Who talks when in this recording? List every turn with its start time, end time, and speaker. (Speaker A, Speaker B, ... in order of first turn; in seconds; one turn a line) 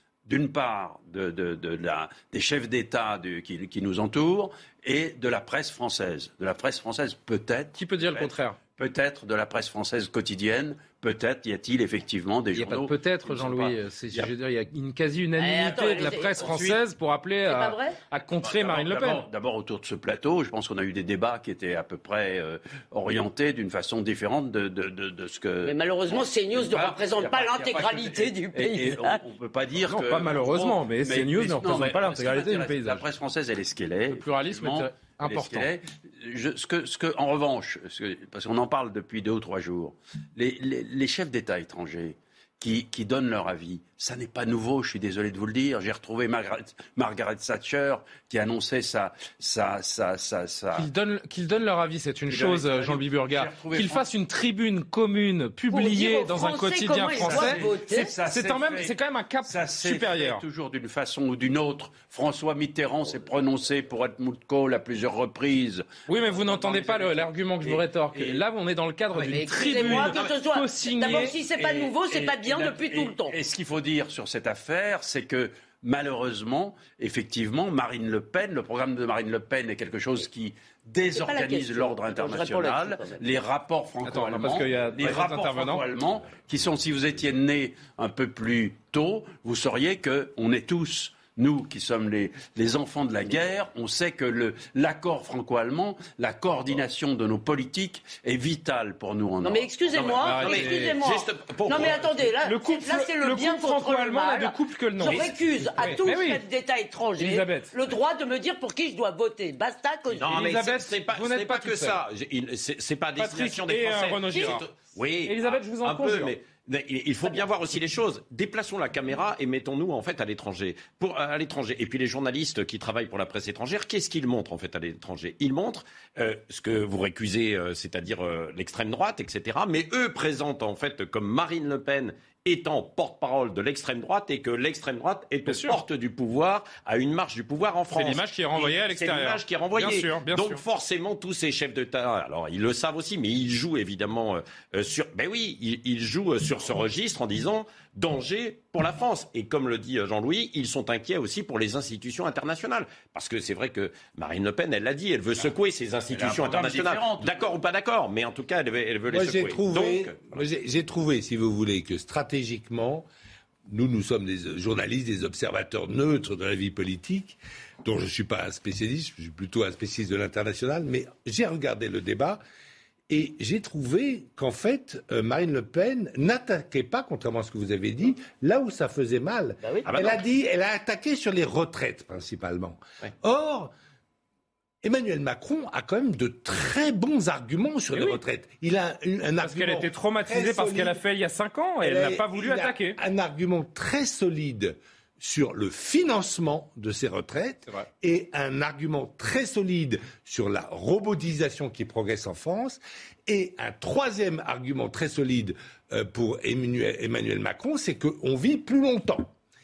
Speaker A: 0.2-14.3
Speaker B: 7.7-8.6
Speaker B: 12.5-19.3
Speaker C: 15.4-16.7
Speaker A: 16.4-16.8
Speaker C: 17.4-18.0
Speaker A: 18.4-50.9
Speaker C: 25.6-29.2
Speaker B: 29.8-33.0
Speaker B: 34.1-35.7
Speaker B: 50.8-57.6
Speaker A: 52.3-54.1
Speaker C: 55.7-58.1
Speaker A: 57.1-58.9
Speaker B: 58.2-60.4
Speaker A: 59.4-68.4
Speaker B: 66.0-71.3
Speaker A: 69.1-70.1
Speaker C: 69.3-73.3
Speaker A: 71.1-99.7
Speaker C: 81.1-83.3
Speaker B: 84.0-85.9
Speaker C: 99.4-110.4
Speaker B: 100.0-100.9
Speaker D: 100.0-102.2
Speaker B: 102.4-106.4
Speaker B: 107.2-107.7
Speaker D: 110.2-160.4
Speaker B: 110.3-112.0
Speaker B: 113.2-114.7
Speaker B: 115.2-116.3
Speaker B: 135.4-135.8
Speaker B: 137.9-140.6
Speaker A: 156.1-157.5
Speaker E: 159.1-163.1
Speaker E: 163.7-172.4
Speaker E: 173.1-183.7
Speaker C: 179.6-179.9
Speaker D: 179.9-180.2
Speaker E: 184.8-191.0
Speaker B: 187.9-188.2
Speaker B: 189.4-193.0
Speaker E: 191.8-209.3